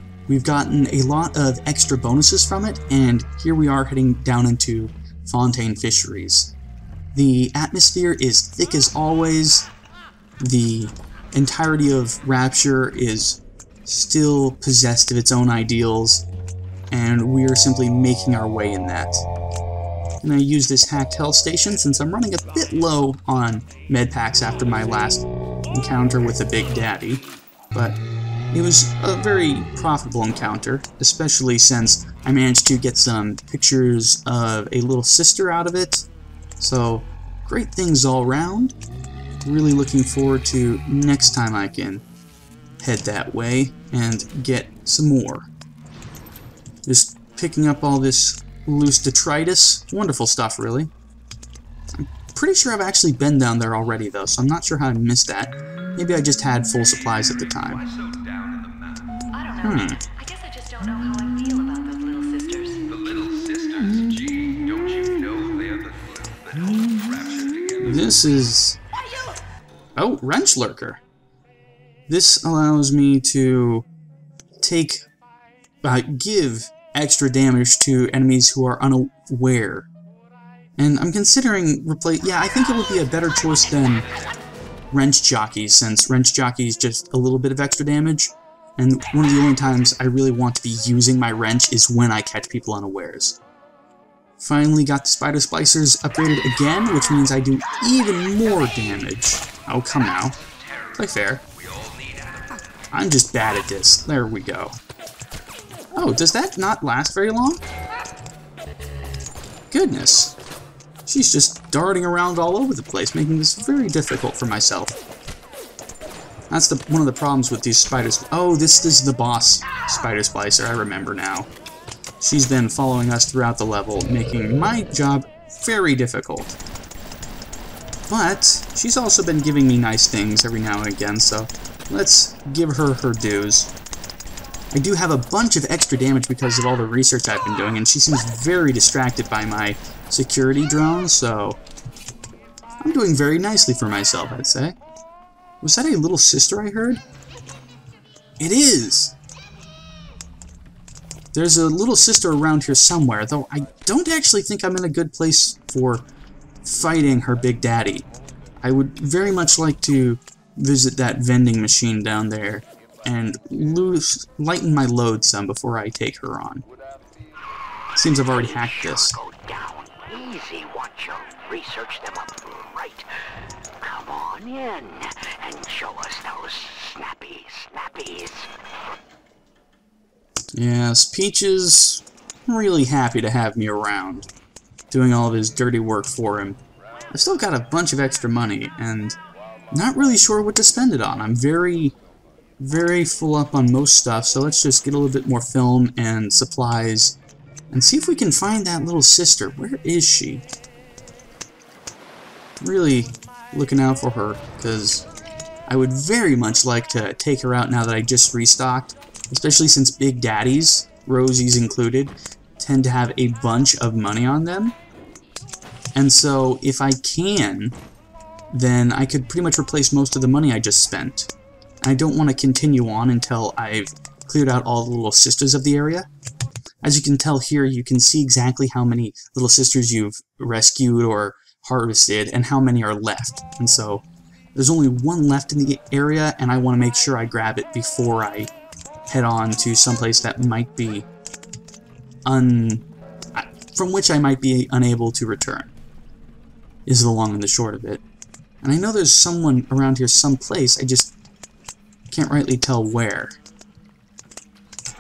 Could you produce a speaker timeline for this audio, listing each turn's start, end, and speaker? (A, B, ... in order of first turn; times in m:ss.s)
0:00.3-0:06.6 A
0:07.1-0:09.7 A
0:10.4-0:16.2 A
0:16.9-0:19.2 A
0:20.2-0:28.0 A
0:28.5-0:36.1 A
0:36.6-0:38.8 A
0:39.4-0:42.0 A
0:42.8-0:45.5 A
0:46.9-0:50.9 A
0:52.0-0:57.8 A
0:57.7-0:59.2 B
0:59.3-1:02.9 C
0:59.6-1:00.0 A
1:02.9-1:08.1 B
1:07.8-1:08.8 A
1:10.0-1:11.0 A
1:12.1-1:13.9 A
1:14.6-1:15.0 A
1:15.8-1:19.9 A
1:20.8-1:24.1 A
1:23.8-1:24.3 D
1:24.9-1:33.4 A
1:34.4-1:40.4 A
1:40.6-1:40.9 B
1:41.0-1:41.4 A
1:41.5-1:42.6 B
1:42.9-1:44.8 A
1:46.0-1:47.6 A
1:49.7-1:50.4 A
1:51.1-1:55.0 A
1:56.5-2:01.5 A
2:02.2-2:06.6 A
2:08.1-2:13.7 A
2:14.7-2:21.6 A
2:22.8-2:24.8 A
2:25.6-2:27.0 A
2:28.4-2:29.2 A
2:31.3-2:36.1 A
2:36.6-2:38.1 A
2:38.6-2:46.6 A
2:48.0-2:49.2 A
2:48.0-2:53.1 D
2:53.8-2:58.5 D
3:00.5-3:04.3 A
3:04.9-3:06.6 A
3:07.1-3:09.2 A
3:09.7-3:12.0 A
3:12.6-3:17.2 A
3:17.7-3:20.4 A
3:22.6-3:25.1 A
3:25.7-3:34.8 A
3:36.0-3:37.8 A
3:38.5-3:41.3 A
3:41.8-3:46.1 A
3:46.8-3:58.5 A
3:59.1-4:01.1 A
4:02.3-4:05.7 A
4:06.9-4:08.0 A
4:08.6-4:11.1 A
4:12.1-4:13.4 A